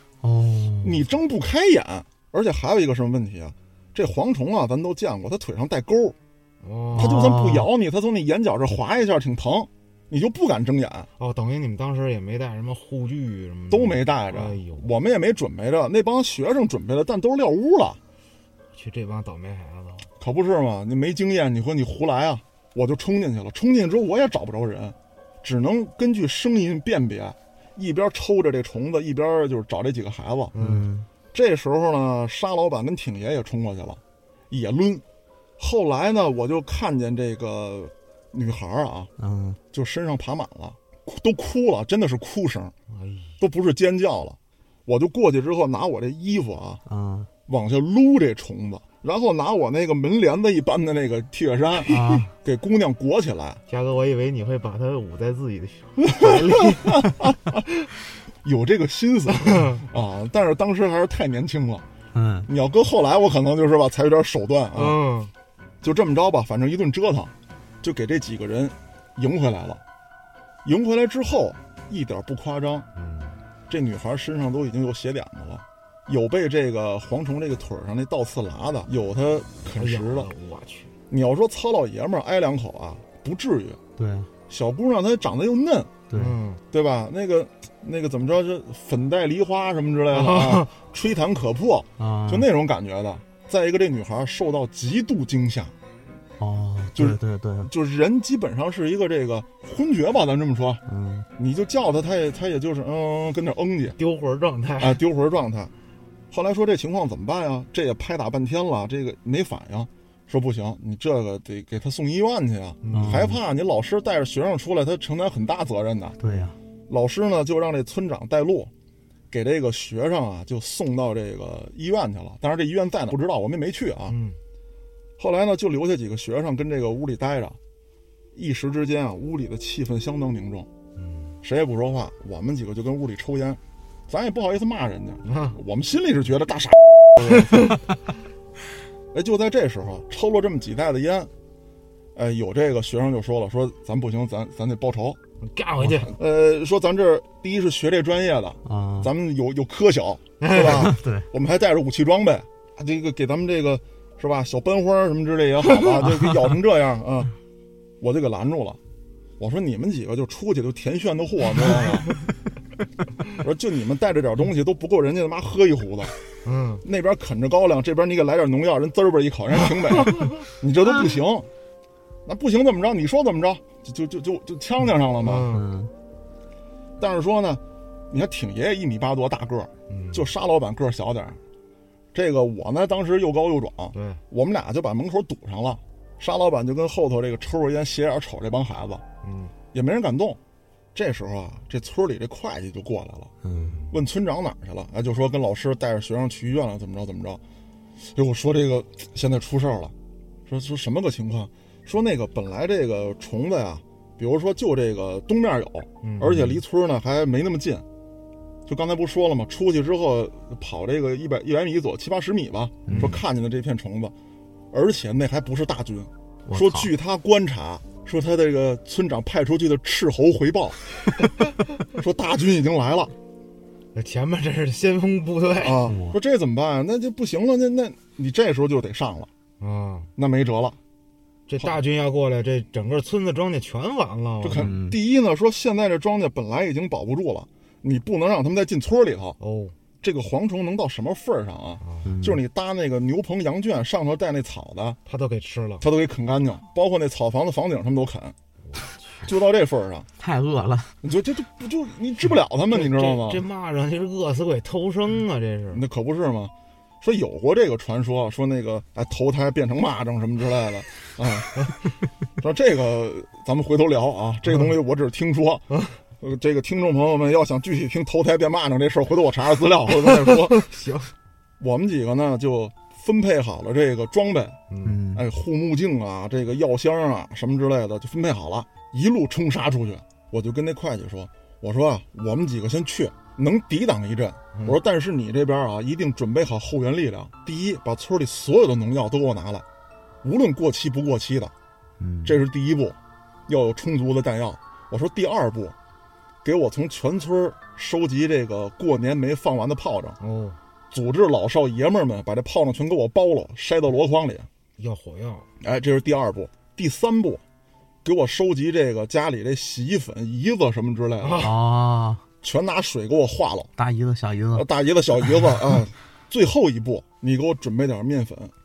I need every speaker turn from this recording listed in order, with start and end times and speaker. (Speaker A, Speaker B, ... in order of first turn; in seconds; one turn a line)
Speaker A: 0.2-1.0
Speaker B: 0.8-6.2
Speaker C: 6.6-7.2
Speaker A: 6.9-7.7
Speaker B: 6.9-11.1
Speaker C: 11.2-14.9
Speaker B: 13.7-18.0
Speaker C: 18.7-20.1
Speaker B: 20.2-30.5
Speaker C: 30.5-30.9
Speaker A: 30.6-31.1
Speaker B: 31.3-35.0
Speaker B: 35.6-39.1
Speaker A: 39.2-39.6
Speaker B: 39.7-42.7
Speaker C: 42.9-43.4
Speaker B: 43.4-46.8
Speaker A: 46.9-47.3
Speaker B: 47.5-53.6
Speaker A: 51.9-52.3
Speaker C: 53.7-57.1
Speaker B: 56.1-57.6
Speaker B: 58.4-61.8
Speaker C: 59.4-59.8
Speaker A: 62.1-62.5
Speaker B: 62.5-65.0
Speaker C: 64.7-65.3
Speaker B: 65.8-69.8
Speaker B: 70.6-72.9
Speaker C: 73.0-73.4
Speaker B: 73.7-80.3
Speaker C: 79.7-80.9
Speaker B: 81.1-83.8
Speaker A: 84.0-84.3
Speaker B: 84.5-85.9
Speaker A: 86.1-86.3
Speaker C: 86.1-86.6
Speaker B: 86.7-95.7
Speaker C: 90.1-90.7
Speaker A: 92.0-92.5
Speaker A: 96.4-97.7
Speaker B: 96.9-100.8
Speaker A: 100.9-101.3
Speaker B: 101.4-104.0
Speaker C: 104.0-105.0
Speaker B: 104.8-105.7
Speaker B: 106.3-116.2
Speaker C: 112.8-113.2
Speaker A: 112.9-113.4
Speaker A: 116.2-116.5
Speaker C: 116.2-116.5
Speaker B: 116.9-118.7
Speaker B: 119.3-124.2
Speaker C: 124.1-124.4
Speaker B: 125.2-127.6
Speaker B: 128.3-130.7
Speaker C: 130.9-131.3
Speaker B: 131.4-137.7
Speaker C: 135.2-135.6
Speaker C: 137.2-137.8
Speaker B: 139.1-141.3
Speaker B: 142.1-145.2
Speaker C: 145.4-146.1
Speaker B: 146.1-157.3
Speaker A: 148.6-149.1
Speaker C: 150.4-150.9
Speaker A: 150.6-151.2
Speaker A: 156.0-156.3
Speaker B: 158.0-158.8
Speaker B: 159.4-162.1
Speaker B: 163.3-166.1
Speaker C: 166.4-166.8
Speaker B: 166.8-171.5
Speaker B: 172.2-175.5
Speaker C: 175.2-175.7
Speaker A: 175.5-175.9
Speaker B: 177.0-181.4
Speaker C: 179.9-180.3
Speaker B: 182.1-189.0
Speaker C: 183.9-184.2
Speaker C: 189.2-189.5
Speaker B: 189.7-190.4
Speaker B: 190.9-193.3
Speaker A: 193.4-193.8
Speaker C: 193.6-193.9
Speaker B: 193.9-197.4
Speaker B: 198.0-199.9
Speaker B: 200.5-207.8
Speaker C: 206.0-206.4
Speaker A: 206.2-206.6
Speaker B: 208.7-214.1
Speaker C: 212.9-213.2
Speaker A: 212.9-213.2
Speaker B: 214.7-220.8
Speaker A: 216.5-216.9
Speaker B: 221.9-223.1
Speaker C: 223.9-225.8
Speaker B: 225.6-229.3
Speaker A: 225.9-226.2
Speaker C: 229.6-230.1
Speaker B: 230.2-230.8
Speaker C: 231.5-234.7
Speaker B: 234.4-239.4
Speaker A: 234.5-235.0
Speaker C: 239.4-239.7
Speaker B: 240.0-245.0
Speaker C: 241.8-242.1
Speaker A: 242.0-242.4
Speaker C: 245.1-245.8
Speaker B: 245.8-248.3
Speaker C: 248.7-249.2
Speaker B: 249.2-250.1
Speaker A: 250.2-250.9
Speaker B: 251.0-253.4
Speaker C: 252.7-255.8
Speaker B: 255.7-261.7
Speaker B: 262.4-265.6
Speaker C: 265.7-266.0
Speaker B: 266.2-270.6
Speaker C: 270.3-271.1
Speaker B: 271.6-274.6
Speaker C: 274.7-275.0
Speaker A: 274.8-275.2
Speaker B: 275.1-289.6
Speaker B: 290.2-291.5
Speaker A: 292.0-292.4
Speaker B: 292.2-295.7
Speaker B: 296.4-300.2
Speaker C: 300.2-300.6
Speaker B: 300.9-304.5
Speaker C: 304.8-305.5
Speaker B: 305.6-307.4
Speaker B: 308.0-311.5
Speaker C: 311.2-311.6
Speaker A: 311.4-312.2
Speaker B: 312.4-313.7
Speaker A: 313.8-314.7
Speaker B: 314.5-318.5